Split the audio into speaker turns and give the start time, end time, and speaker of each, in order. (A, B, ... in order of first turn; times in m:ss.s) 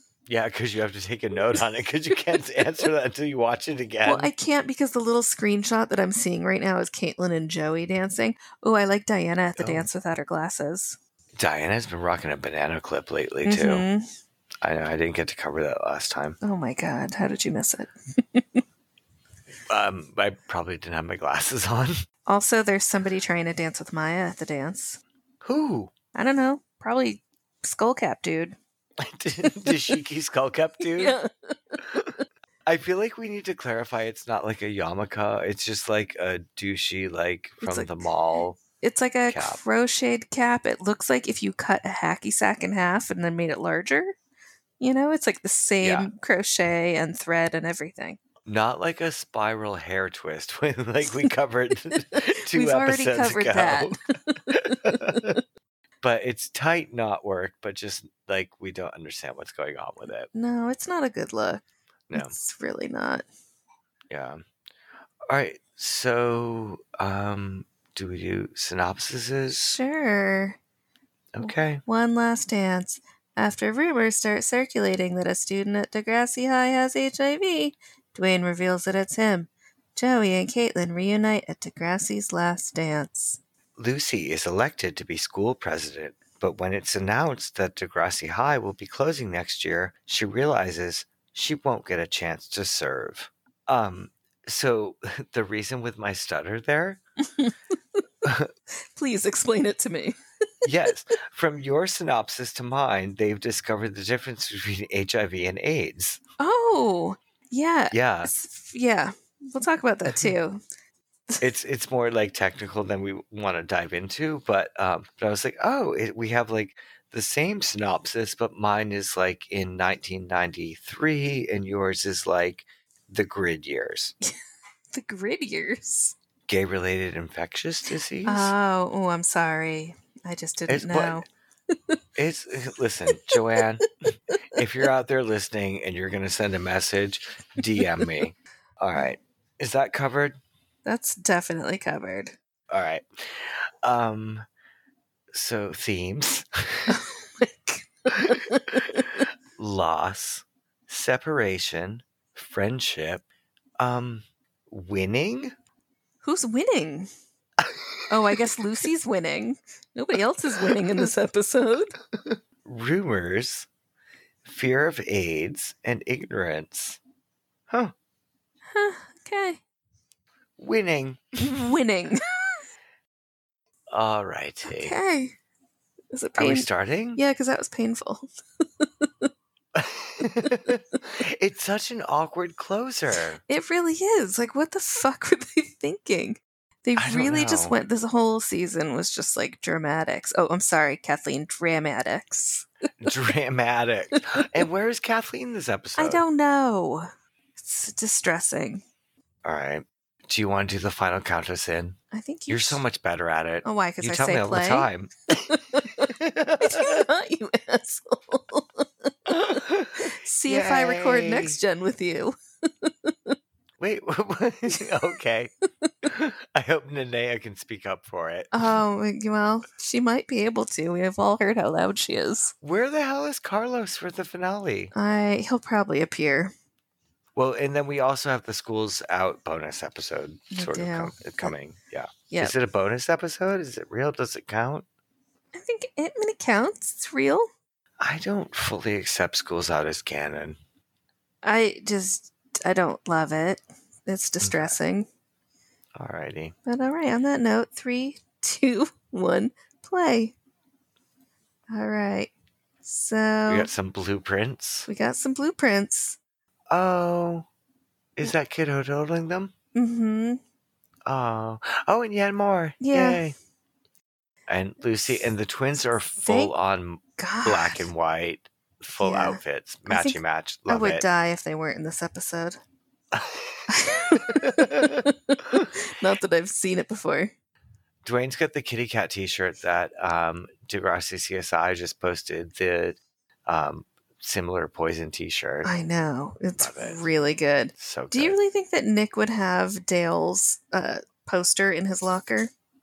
0:00.3-0:04.3 A
0:04.0-0:11.0 B
0:09.6-0:09.9 A
0:11.4-0:13.9 A
0:13.4-0:14.1 B
0:14.6-0:16.4 A
0:16.4-0:18.6 B
0:19.7-0:22.0 A
0:22.3-0:25.0 B
0:25.4-0:25.9 A
0:26.2-0:28.6 B
0:29.0-0:31.2 A
0:29.4-0:30.0 B
0:30.9-0:31.8 B
0:32.7-0:38.6 A
0:37.6-0:38.0 B
0:38.8-0:44.1 B
0:39.3-0:39.6 A
0:44.8-0:48.2 B
0:45.8-0:46.1 A
0:48.5-0:55.4 A
0:52.5-0:54.0 B
0:54.5-0:55.4 B
0:56.0-1:00.3 A
1:00.3-1:01.6 B
1:02.1-1:02.3 A
1:02.2-1:03.2 B
1:04.1-1:04.4 A
1:05.3-1:09.8 A
1:09.7-1:10.6 B
1:11.3-1:11.8 A
1:11.4-1:23.4 B
1:23.8-1:37.0 A
1:38.2-1:38.5 A
1:39.0-1:40.2 B
1:40.6-1:46.2 A
1:46.4-1:50.6 B
1:47.9-1:48.3 A
1:51.4-2:04.2 A
2:04.9-2:06.2 B
2:06.5-2:08.5 A
2:08.2-2:11.3 B
2:10.7-2:11.2 A
2:12.2-2:13.9 A
2:13.1-2:13.4 B
2:14.5-2:20.4 A
2:17.8-2:18.0 B
2:20.9-2:22.4 B
2:22.7-2:24.5 A
2:25.3-2:27.0 A
2:26.9-2:29.2 B
2:29.6-2:33.2 A
2:33.8-2:35.5 A
2:36.2-2:37.1 B
2:37.6-2:38.6 A
2:38.1-2:42.0 B
2:40.6-2:41.1 A
2:42.2-2:43.7 A
2:44.4-2:47.0 A
2:47.7-2:47.9 A
2:48.7-2:49.6 B
2:50.6-2:51.4 A
2:51.4-2:52.6 B
2:53.9-2:55.0 A
2:54.7-2:55.4 B
2:56.1-2:58.3 B
2:56.4-2:57.2 A
2:58.8-2:59.3 B
2:59.8-3:03.4 A
3:03.5-3:12.7 B
3:07.0-3:07.8 A
3:13.0-3:16.2 A
3:14.4-3:14.6 B
3:16.0-3:18.8 B
3:19.4-3:22.0 A
3:22.1-3:22.8 B
3:22.5-3:25.1 A
3:23.6-3:29.3 B
3:26.0-3:27.0 A
3:29.3-3:31.6 A
3:30.0-3:33.4 B
3:33.8-3:35.5 A
3:36.0-3:38.5 A
3:38.5-3:42.5 B
3:42.6-3:44.9 A
3:44.9-3:46.5 B
3:47.4-3:54.8 A
3:50.5-3:51.5 B
3:52.3-3:52.6 B
3:55.5-3:57.5 B
3:58.0-4:00.6 A
4:01.4-4:05.1 B
4:04.4-4:04.8 A
4:06.0-4:06.6 A
4:06.7-4:10.4 B
4:11.7-4:12.3 B
4:12.8-4:13.7 B
4:13.5-4:14.9 A
4:14.9-4:16.2 B
4:16.7-4:17.5 A
4:18.2-4:19.5 A
4:19.8-4:20.4 B
4:21.1-4:23.4 A
4:22.8-4:23.2 B
4:24.5-4:31.0 A
4:26.2-4:26.5 B
4:27.2-4:27.9 B
4:29.0-4:32.6 B
4:33.1-4:35.7 A
4:33.7-4:37.3 B
4:38.0-4:45.7 A
4:45.6-4:52.5 B
4:46.6-4:47.0 A
4:47.8-4:48.4 A